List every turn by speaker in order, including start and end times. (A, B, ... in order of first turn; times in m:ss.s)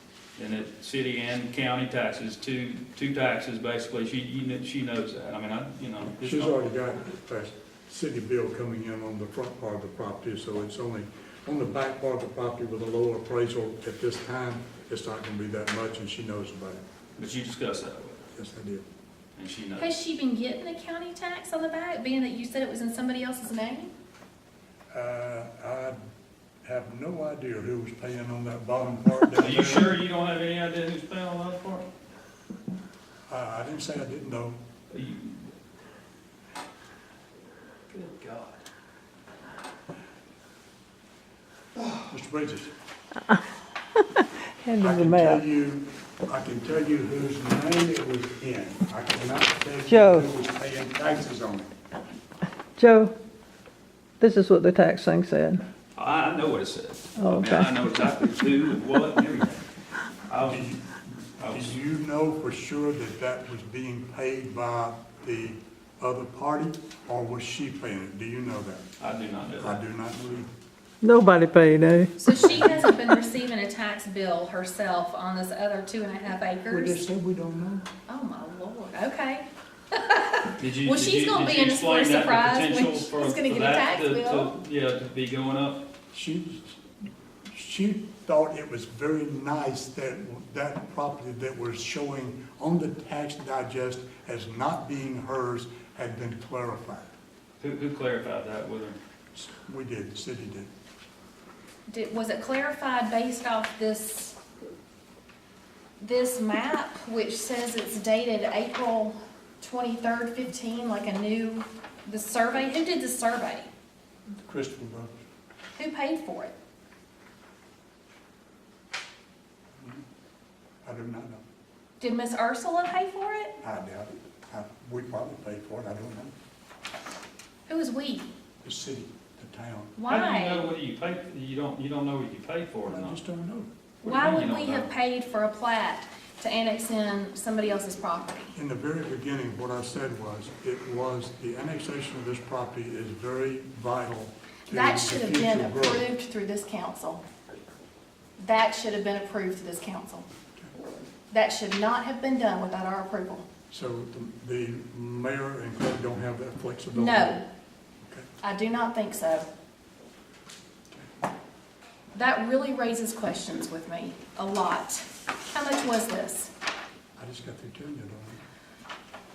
0:00.4-0:06.6 A
0:06.2-0:16.8 B
0:17.2-0:18.2 A
0:18.3-0:18.8 B
0:19.4-0:19.9 A
0:19.8-0:23.9 C
0:24.9-0:26.0 B
0:26.6-0:30.0 B
0:29.4-0:31.9 A
0:33.3-0:34.6 B
0:34.9-0:35.5 A
0:37.9-0:38.6 A
0:41.8-0:42.1 A
0:42.1-0:42.7 B
0:44.6-0:45.4 D
0:44.8-0:51.7 B
0:49.9-0:50.3 D
0:52.8-0:53.1 D
0:54.2-0:55.6 D
0:56.0-0:59.6 A
0:57.2-0:57.7 D
1:00.3-1:00.7 A
1:00.4-1:08.8 B
1:01.4-1:01.8 A
1:09.0-1:09.8 A
1:09.6-1:10.5 B
1:11.0-1:12.1 D
1:12.2-1:17.0 C
1:12.3-1:12.9 B
1:16.7-1:17.8 B
1:18.1-1:24.5 C
1:20.6-1:25.8 A
1:26.1-1:26.8 B
1:27.5-1:37.1 B
1:37.6-1:39.0 A
1:39.3-1:40.7 B
1:41.9-1:44.4 C
1:46.0-1:53.7 C
1:54.4-1:55.2 B
1:55.8-1:56.5 C
2:00.8-2:01.4 B
2:02.0-2:03.5 C
2:03.6-2:06.3 B
2:07.7-2:08.3 C
2:08.6-2:10.0 B
2:10.0-2:10.7 C
2:10.1-2:13.2 A
2:12.9-2:13.7 B
2:14.0-2:14.9 A
2:14.0-2:18.5 C
2:18.5-2:26.1 B
2:24.7-2:27.2 C
2:28.4-2:30.2 C
2:31.3-2:33.5 C
2:33.7-2:37.4 B
2:36.9-2:37.5 C
2:38.4-2:39.5 C
2:42.1-2:46.5 C
2:47.2-2:48.4 B